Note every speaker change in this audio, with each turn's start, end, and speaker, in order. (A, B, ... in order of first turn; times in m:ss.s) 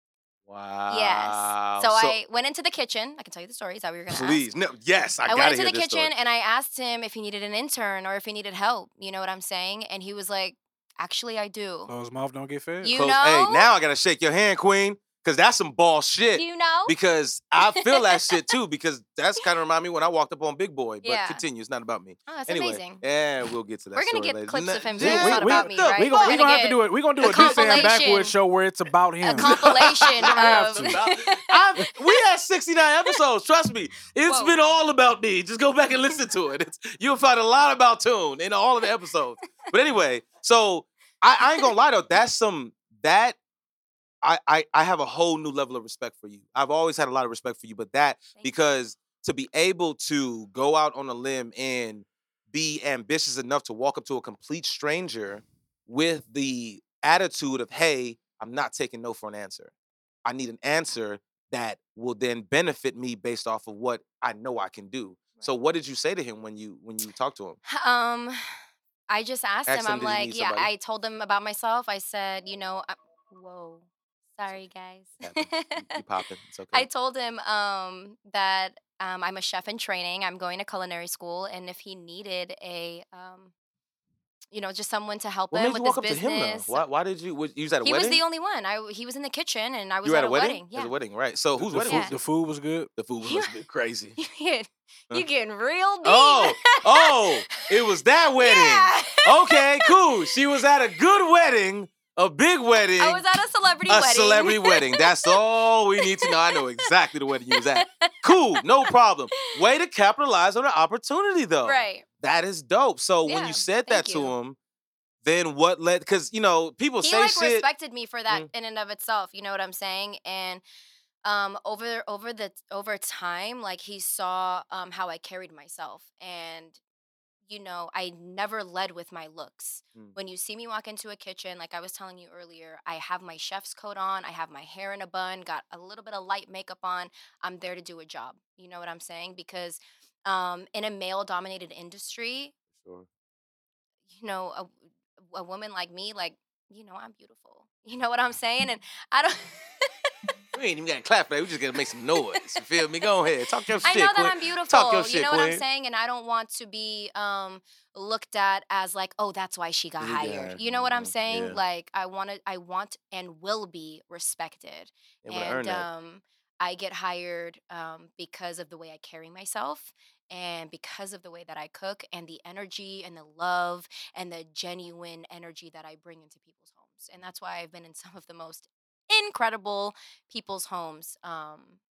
0:00.5-0:02.2 A
0:00.9-0:04.4 B
0:04.1-0:06.1 A
0:05.2-0:11.9 B
0:11.9-0:13.0 C
0:12.8-0:13.7 B
0:12.9-0:26.4 A
0:16.3-0:16.9 B
0:17.6-0:18.4 B
0:21.0-0:21.4 B
0:22.3-0:23.0 B
0:23.9-0:28.3 B
0:25.0-0:31.0 C
0:27.2-0:27.9 A
0:29.2-0:31.6 B
0:29.3-0:43.4 A
0:34.2-0:34.6 B
0:44.2-0:59.7 A
0:48.3-0:48.6 B
1:00.2-1:07.6 A
1:07.7-1:08.4 B
1:09.1-1:15.8 B
1:09.7-1:10.7 A
1:15.2-1:16.9 A
1:16.7-1:23.5 B
1:24.5-1:26.8 B
1:25.5-1:28.2 A
1:27.8-1:30.9 B
1:30.0-1:32.2 A
1:31.6-1:32.9 C
1:31.8-1:32.1 B
1:33.0-1:34.2 A
1:33.2-1:33.5 B
1:34.2-1:37.7 B
1:36.0-1:43.2 A
1:38.4-1:39.9 B
1:43.0-1:45.4 B
1:43.9-1:54.6 A
1:46.0-1:46.6 B
1:47.5-1:48.4 B
1:51.6-1:52.0 B
1:53.2-1:54.3 B
1:55.2-1:57.7 A
1:57.0-2:00.6 B
2:01.2-2:06.8 B
2:07.5-2:22.5 B
2:22.7-2:23.1 A
2:24.1-2:24.8 B
2:25.3-2:29.9 B
2:30.5-2:35.6 A
2:33.8-3:01.8 B
2:40.0-2:41.6 A
2:45.2-2:45.9 A